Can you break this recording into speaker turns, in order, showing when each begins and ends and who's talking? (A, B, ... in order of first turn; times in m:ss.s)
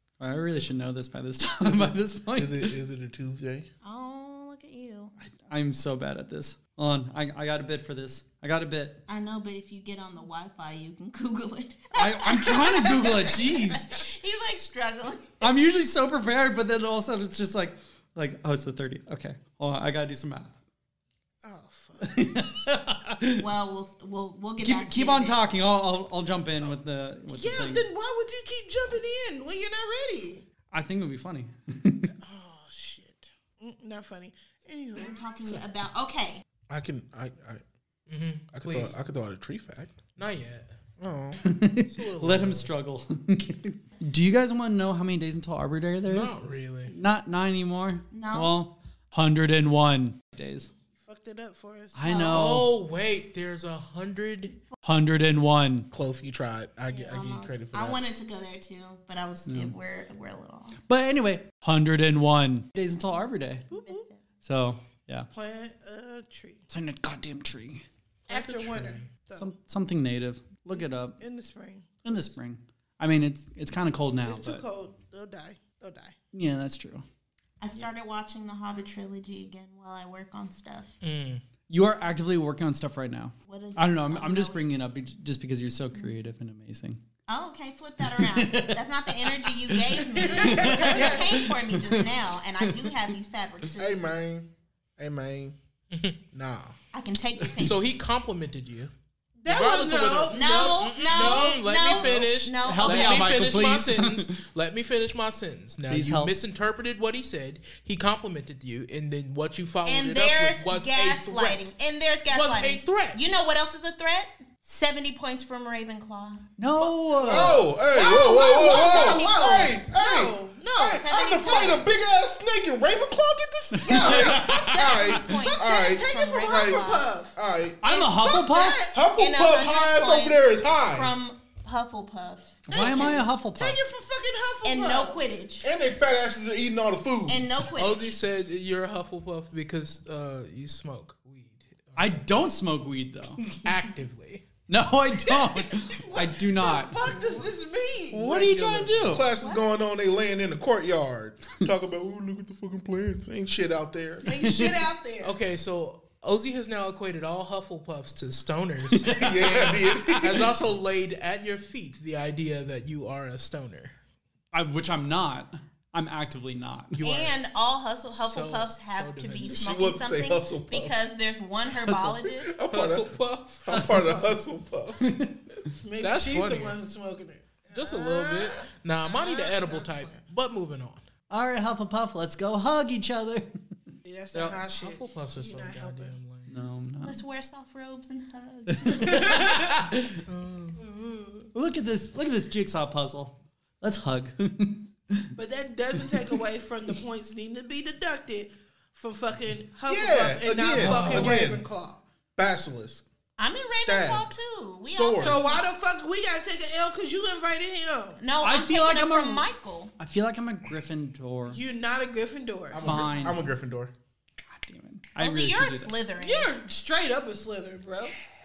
0:00.2-0:02.7 A
0:01.6-0:03.7 B
0:03.8-0:05.1 C
0:05.2-0:09.0 A
0:09.1-0:15.4 C
0:11.9-0:13.9 A
0:15.4-0:20.6 A
0:21.4-0:22.2 D
0:22.0-0:23.5 A
0:23.4-0:25.5 C
0:24.6-0:27.9 A
0:27.3-0:30.4 D
0:30.7-0:32.1 A
0:32.2-0:35.6 D
0:35.0-0:36.4 C
0:36.7-0:37.6 B
0:38.1-0:38.9 E
0:38.5-0:40.0 B
0:40.2-0:40.7 E
0:41.0-0:41.4 B
0:41.4-0:50.7 A
0:41.9-0:42.7 E
0:46.1-0:46.9 E
0:48.1-0:48.6 C
0:51.0-0:52.2 D
0:51.9-0:52.7 A
0:52.0-0:52.6 C
0:52.3-0:54.6 E
0:54.8-0:55.9 A
0:55.9-0:58.0 B
0:57.1-1:00.8 C
0:59.5-0:59.7 A
1:00.8-1:03.6 A
1:03.7-1:04.1 D
1:03.7-1:04.2 C
1:04.4-1:05.3 A
1:05.3-1:06.7 D
1:06.7-1:07.8 A
1:08.3-1:09.1 E
1:08.3-1:09.5 D
1:09.4-1:11.2 A
1:10.7-1:12.3 D
1:12.0-1:14.6 A
1:14.2-1:16.2 D
1:16.3-1:17.0 A
1:17.6-1:21.0 C
1:21.0-1:21.4 E
1:21.7-1:27.0 A
1:23.5-1:24.7 C
1:27.3-1:34.1 C
1:28.0-1:33.0 A
1:30.2-1:31.3 D
1:33.7-1:35.6 B
1:35.9-1:36.2 E
1:36.3-1:36.8 B
1:36.9-1:37.8 C
1:37.6-1:38.9 E
1:39.4-1:42.2 D
1:39.5-1:51.7 E
1:40.3-1:43.3 C
1:42.6-1:44.3 A
1:45.9-1:46.3 A
1:49.8-1:57.1 C
1:52.3-1:53.2 E
1:56.6-1:57.7 A
1:57.2-2:07.8 B
1:57.3-2:01.1 D
1:57.9-1:59.9 C
2:00.8-2:01.9 C
2:03.7-2:05.0 A
2:03.8-2:07.4 D
2:04.9-2:07.1 C
2:07.8-2:08.8 A
2:07.9-2:09.0 D
2:08.9-2:11.1 B
2:09.2-2:13.1 C
2:12.7-2:13.8 A
2:12.7-2:15.2 D
2:14.6-2:15.7 C
2:15.6-2:17.6 B
2:17.3-2:18.2 C
2:17.8-2:22.3 E
2:22.0-2:23.6 A
2:23.5-2:24.4 E
2:24.7-2:27.0 A
2:25.3-2:28.3 D
2:27.0-2:27.4 E
2:28.1-2:34.3 B
2:28.2-2:29.2 A
2:28.2-2:29.2 E
2:29.4-2:29.8 C
2:34.2-2:35.3 D
2:34.4-2:34.8 A
2:35.2-2:43.9 E
2:39.0-2:40.2 A
2:39.0-2:40.5 B
2:44.5-2:47.0 A
2:46.9-2:47.4 E
2:47.0-2:52.5 C
2:48.1-2:49.6 E
2:49.4-2:51.0 B
2:51.8-2:52.3 A
2:52.4-2:55.0 B
2:52.7-2:53.6 E
2:53.7-2:54.0 A
2:53.8-2:54.4 D
2:55.0-2:55.8 A
2:55.8-3:00.2 D
2:56.0-2:56.8 E
2:57.7-3:01.0 E
3:01.3-3:03.6 A
3:04.0-3:06.2 D
3:04.3-3:04.6 A
3:04.7-3:06.6 E
3:06.5-3:07.2 A
3:07.0-3:09.4 C
3:08.7-3:10.2 A
3:09.2-3:10.8 E
3:10.8-3:11.5 D
3:11.5-3:15.4 A
3:15.4-3:22.0 D
3:16.0-3:16.3 A
3:19.8-3:21.6 B
3:20.9-3:21.3 A
3:22.4-3:23.0 B
3:23.4-3:25.7 C
3:23.8-3:24.3 B
3:24.9-3:25.4 B
3:25.2-3:28.2 D
3:28.2-3:29.9 C
3:28.4-3:31.6 A
3:31.5-3:33.1 D
3:32.7-3:33.9 B
3:32.8-3:33.5 A
3:34.5-3:35.9 A
3:35.2-3:36.5 C
3:36.2-3:38.1 D